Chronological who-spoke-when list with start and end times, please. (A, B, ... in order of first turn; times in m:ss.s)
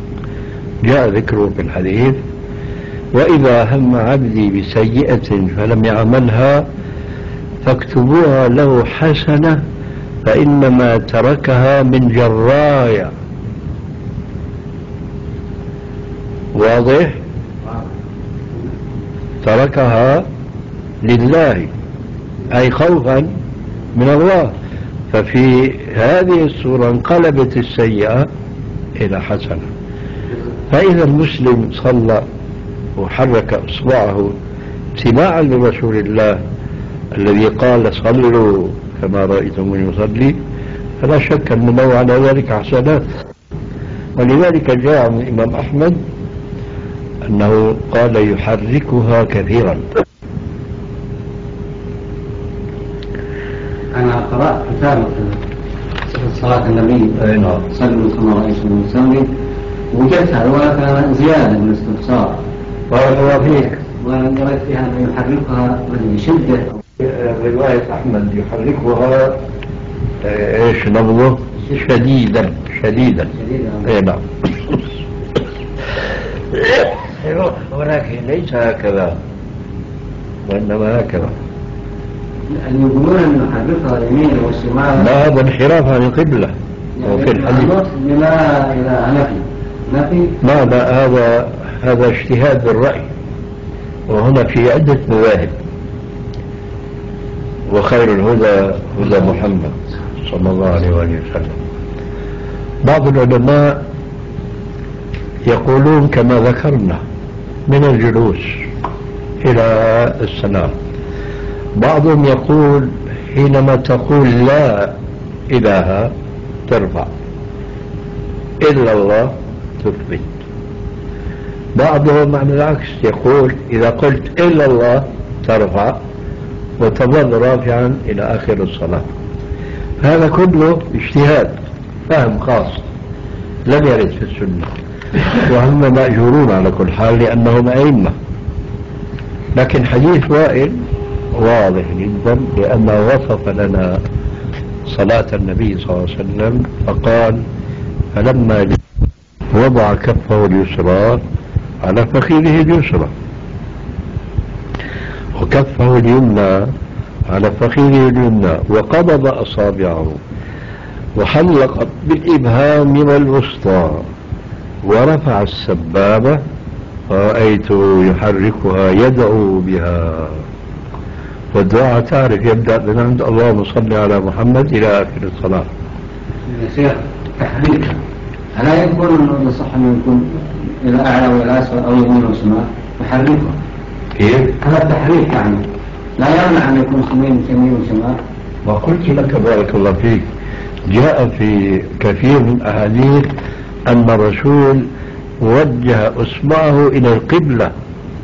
0:00.8-0:02.2 A
0:03.1-0:06.6 A
0:07.6-0:09.6 A
0:10.2-0:13.1 A
0:16.5-0:17.2 A
0:19.4-0:20.2 A
0:21.0-0:21.7 A
0:22.5-0:23.3 A
0:23.9-0:24.5 A
0:25.1-0:28.3 A
0:29.0-0:29.7 A
0:30.7-0:32.2 A
0:33.0-0:34.3 A
0:35.0-0:36.4 A
0:37.2-0:40.4 A
0:41.0-0:43.0 A
0:44.2-0:46.0 A
0:47.3-0:49.8 A
0:53.9-0:55.4 B
0:56.1-0:59.3 B
0:57.2-0:57.6 A
0:59.9-1:02.4 B
1:02.9-1:03.7 A
1:03.3-1:06.8 B
1:07.0-1:09.4 A
1:10.2-1:13.3 A
1:13.3-1:13.9 B
1:13.8-1:14.8 A
1:16.5-1:19.2 A
1:20.4-1:21.3 A
1:22.5-1:25.1 B
1:25.0-1:27.7 A
1:27.0-1:30.4 B
1:30.4-1:33.1 A
1:34.1-1:35.5 A
1:37.7-1:41.6 A
1:42.8-1:43.8 A
1:45.5-1:47.0 A
1:47.7-1:48.7 A
1:49.4-1:50.7 A
1:51.8-1:55.0 A
1:55.5-1:56.1 A
1:56.7-1:57.1 A
1:58.6-2:00.4 A
2:01.8-2:06.0 A
2:06.8-2:09.0 A
2:10.0-2:11.6 A
2:12.1-2:12.8 A
2:13.7-2:14.7 A
2:15.4-2:18.1 A
2:19.6-2:20.8 A
2:21.3-2:24.0 A
2:24.9-2:27.4 A
2:28.1-2:28.8 A
2:29.5-2:31.2 A
2:31.8-2:33.1 A
2:35.4-2:36.7 A
2:37.3-2:40.2 A
2:41.2-2:44.0 A
2:44.8-2:46.4 A
2:47.1-2:50.4 A
2:51.5-2:55.7 A
2:56.5-2:58.0 B
2:58.5-3:03.6 B
3:04.2-3:04.5 A
3:04.6-3:05.6 B
3:06.2-3:08.2 B
3:08.6-3:10.2 A
3:10.9-3:13.3 A
3:13.9-3:14.8 A
3:15.4-3:17.7 A